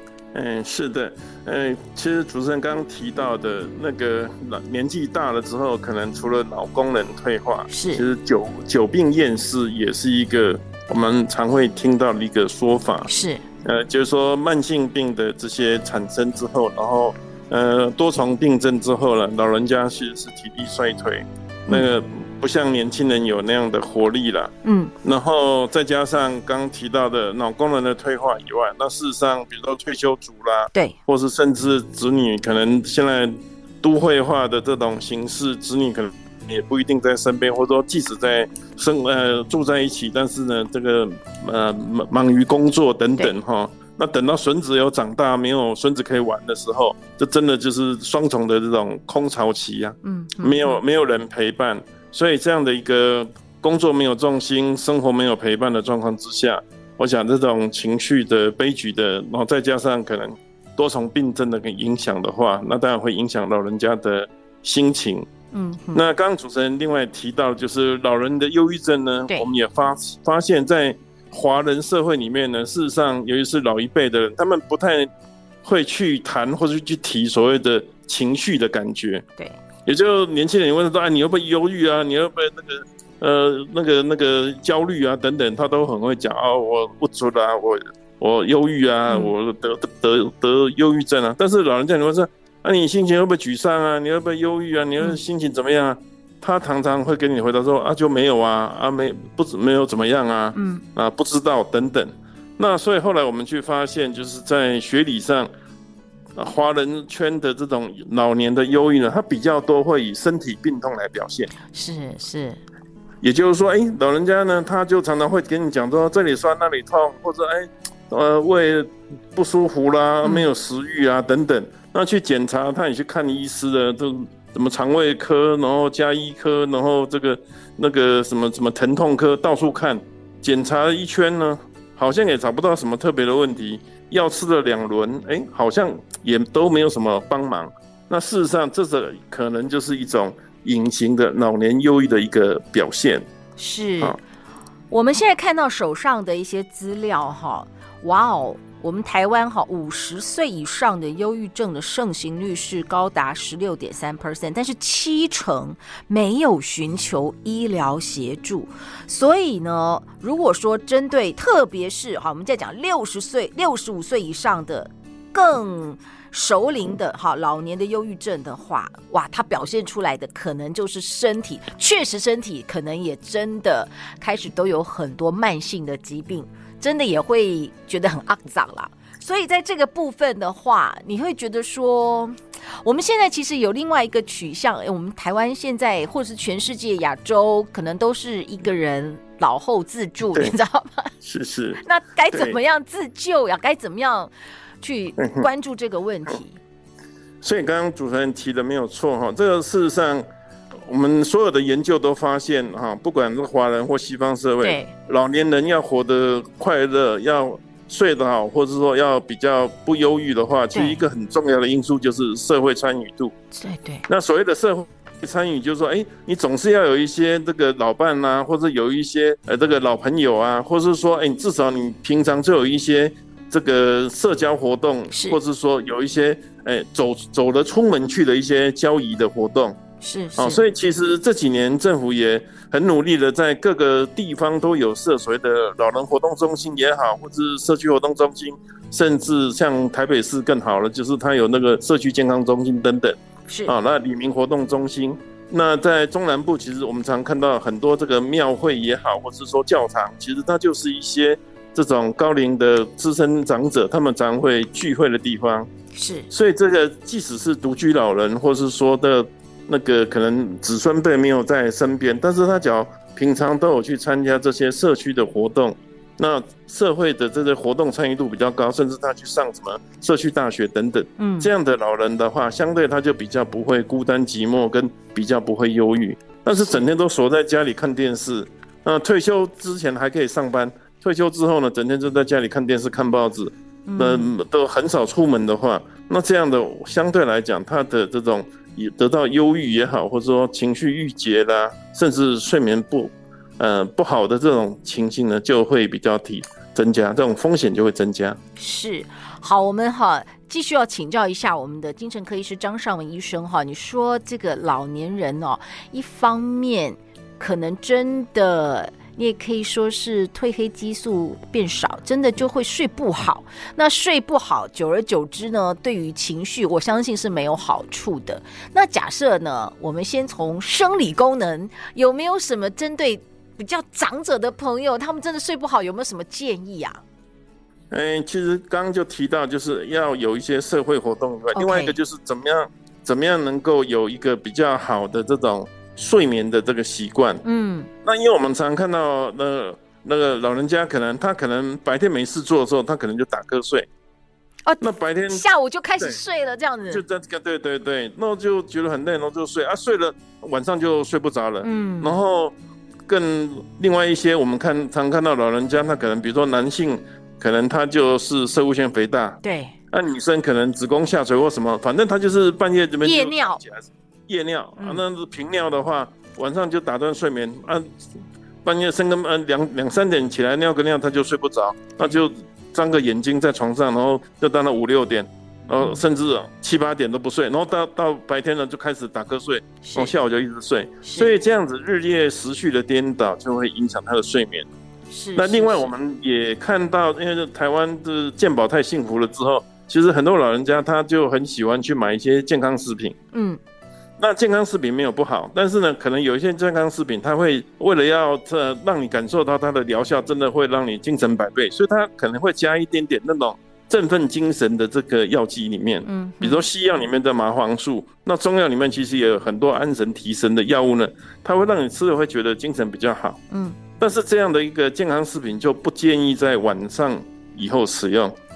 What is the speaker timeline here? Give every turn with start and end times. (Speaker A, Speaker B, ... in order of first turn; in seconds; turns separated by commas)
Speaker A: 0.3-13.1, Speaker B: 7.7-8.0, Speaker B: 13.1-13.4, Speaker A: 13.6-24.5, Speaker B: 24.6-24.9, Speaker A: 25.0-65.3, Speaker B: 50.0-50.8, Speaker B: 65.5-66.0, Speaker A: 65.9-75.1, Speaker A: 75.6-79.2, Speaker A: 79.9-105.5, Speaker B: 89.1-89.3, Speaker B: 100.5-100.8, Speaker A: 106.4-111.5, Speaker B: 111.7-112.6, Speaker A: 113.2-143.3, Speaker B: 120.2-120.5, Speaker B: 143.6-144.2, Speaker B: 144.9-191.1, Speaker A: 191.2-192.6, Speaker B: 191.8-196.6, Speaker A: 195.2-195.5, Speaker A: 197.4-200.3, Speaker A: 200.9-213.3, Speaker B: 204.6-204.9, Speaker B: 210.7-211.0, Speaker B: 213.5-214.0, Speaker A: 214.1-229.8, Speaker B: 225.1-225.4, Speaker B: 230.0-230.6, Speaker A: 230.4-255.7, Speaker B: 243.5-243.7, Speaker B: 255.9-256.3, Speaker A: 256.3-298.4, Speaker B: 271.2-271.5, Speaker B: 276.6-276.9, Speaker B: 283.9-284.3, Speaker B: 298.6-327.0, Speaker A: 327.9-337.4, Speaker B: 331.6-332.0, Speaker B: 337.4-337.9, Speaker A: 338.0-343.9, Speaker B: 344.7-347.0, Speaker A: 344.8-345.5, Speaker A: 346.9-352.6, Speaker B: 351.6-352.2, Speaker A: 353.1-359.4, Speaker B: 359.4-359.8, Speaker A: 359.9-367.9, Speaker B: 363.0-363.6, Speaker B: 364.8-365.0, Speaker A: 368.6-384.7, Speaker B: 375.8-376.0, Speaker B: 379.8-380.1, Speaker B: 381.0-381.3, Speaker B: 385.1-385.9, Speaker A: 385.4-393.1, Speaker B: 393.3-393.6, Speaker A: 394.2-413.4, Speaker B: 406.0-406.7, Speaker B: 413.5-413.8, Speaker A: 414.0-418.4